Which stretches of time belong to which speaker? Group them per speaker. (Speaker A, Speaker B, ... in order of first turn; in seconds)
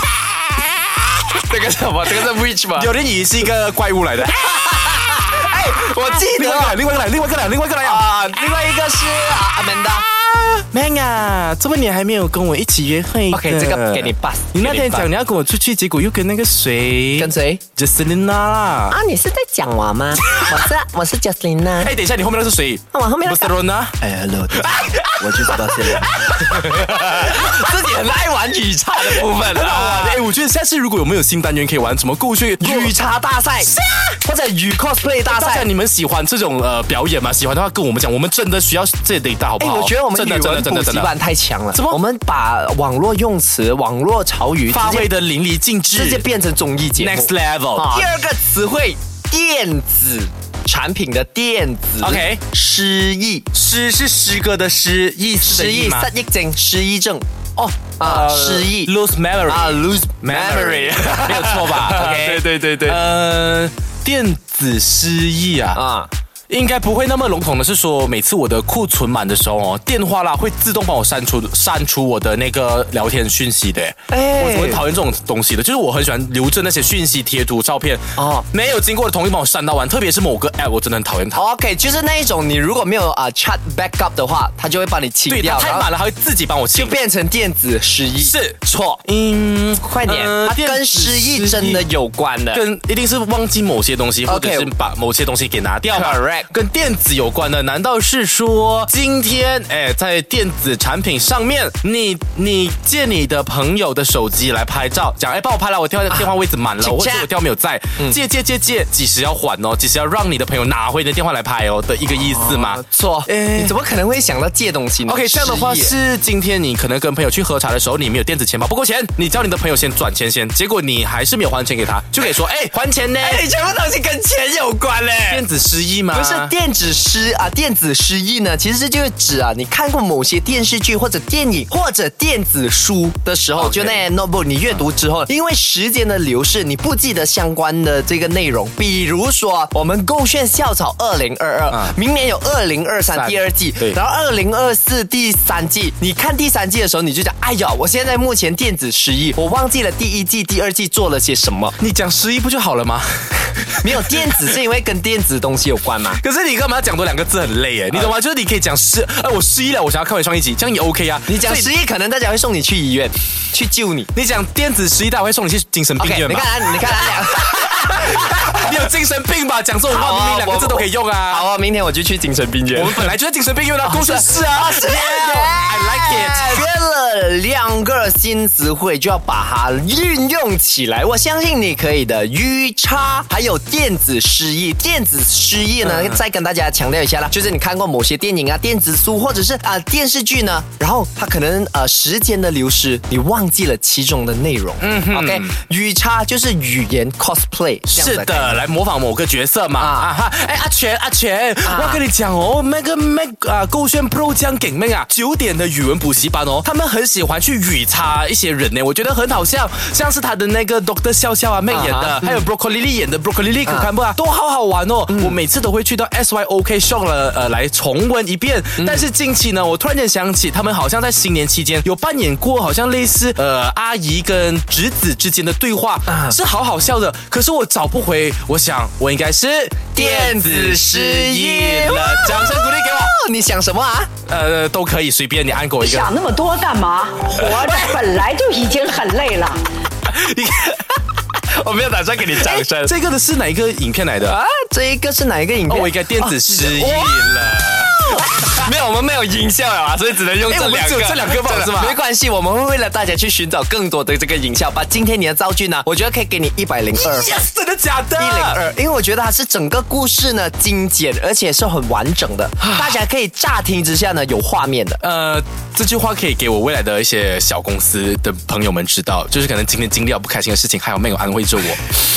Speaker A: 1.3-2.9, 4.3-6.8, 7.8-10.1, 13.3-15.1, 17.1-17.6, 18.9-21.9, 22.9-30.2, 32.6-35.6, 39.6-45.1, 45.9-53.5, 55.4-57.2, 58.0-58.9, 59.5-63.0, 65.7-66.1, 74.1-74.8, 78.2-78.5, 81.3-85.9, 86.7-89.0, 89.8-92.6, 94.2-94.7, 95.8-96.5, 106.8-107.3, 112.1-116.0, 123.2-125.4, 126.1-151.8, 153.8-156.2, 161.3-164.1, 166.0-168.7, 169.9-173.1, 173.8-198.6, 199.8-200.1, 201.6-202.0, 211.7-212.4, 215.1-215.3, 218.8-219.1, 226.1-226.3, 229.9-234.1, 241.5-242.9, 244.2-247.3, 248.2-257.4, 258.1-265.0
Speaker B: 2.8-8.1, 10.1-18.9, 20.2-20.7, 21.8-24.0, 24.5-27.8, 29.0-32.9, 33.6-34.1, 35.2-41.1, 41.7-42.0, 44.7-46.2, 47.0-48.1, 52.0-52.4, 53.5-56.1, 57.5-65.8, 66.5-81.4, 85.3-86.9, 88.2-91.9, 92.5-113.7, 115.0-123.4, 125.3-126.5, 133.6-134.0, 141.7-141.9, 143.1-144.0, 151.8-154.6, 156.1-161.7, 164.1-171.5, 172.7-176.7, 185.8-186.2, 194.8-195.5, 197.9-233.1, 234.3-236.1, 237.4-238.0, 240.1-240.8, 242.4-244.4, 245.7-248.7, 250.4-252.0, 256.9-258.6, 262.6-263.0, 265.0-272.0
Speaker C: 235.8-239.7